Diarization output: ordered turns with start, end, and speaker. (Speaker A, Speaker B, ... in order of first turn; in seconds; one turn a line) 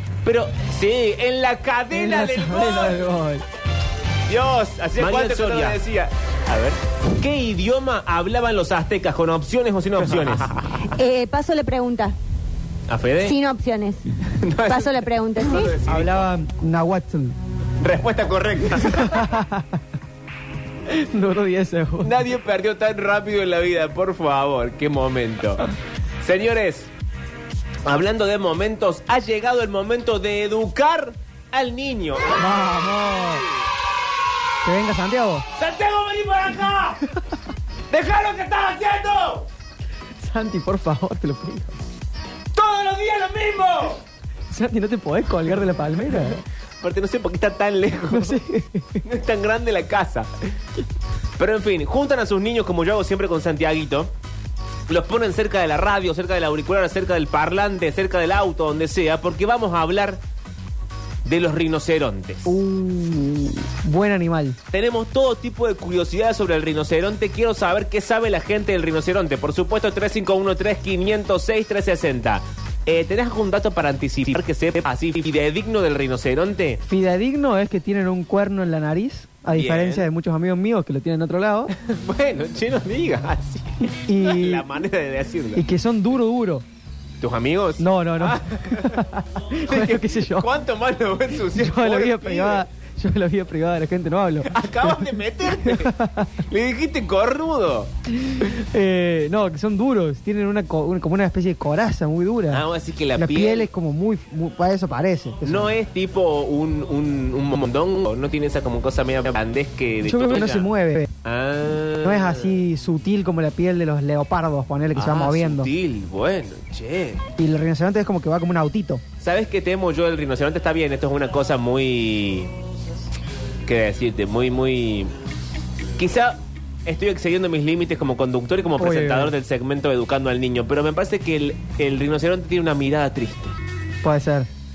Speaker A: 0.2-3.0
Speaker B: 1.9-3.4
Speaker A: 4.3-10.6
Speaker B: 5.1-5.6
Speaker C: 10.9-12.1
Speaker A: 12.9-13.3
Speaker C: 13.2-14.0
Speaker A: 14.4-16.3
Speaker C: 14.6-15.8
Speaker B: 15.8-17.4
Speaker A: 17.8-19.4
Speaker B: 18.8-19.8
Speaker B: 20.9-22.3
Speaker A: 22.0-25.6
Speaker A: 26.2-26.9
Speaker A: 27.9-32.6
Speaker B: 32.4-33.5
Speaker B: 34.6-35.5
Speaker A: 35.6-37.0
Speaker A: 37.9-39.5
Speaker B: 40.2-41.8
Speaker A: 42.5-44.0
Speaker B: 44.5-46.4
Speaker A: 46.8-48.4
Speaker B: 48.1-49.0
Speaker A: 49.0-50.5
Speaker A: 51.4-54.1
Speaker A: 54.9-60.2
Speaker A: 61.3-62.6
Speaker B: 62.5-64.6
Speaker A: 64.7-76.8
Speaker B: 76.9-81.7
Speaker A: 79.5-80.1
Speaker A: 81.7-85.7
Speaker B: 84.1-84.8
Speaker B: 85.5-86.6
Speaker A: 87.2-92.6
Speaker B: 87.8-90.5
Speaker B: 91.5-96.3
Speaker A: 94.4-97.9
Speaker B: 98.2-105.7
Speaker A: 102.5-103.7
Speaker A: 105.4-110.7
Speaker B: 110.0-111.1
Speaker A: 111.2-112.6
Speaker B: 112.0-115.7
Speaker A: 115.0-117.2
Speaker B: 117.4-119.0
Speaker A: 119.2-122.5
Speaker A: 123.7-125.1
Speaker A: 126.0-133.6
Speaker B: 128.8-129.3
Speaker B: 134.0-134.5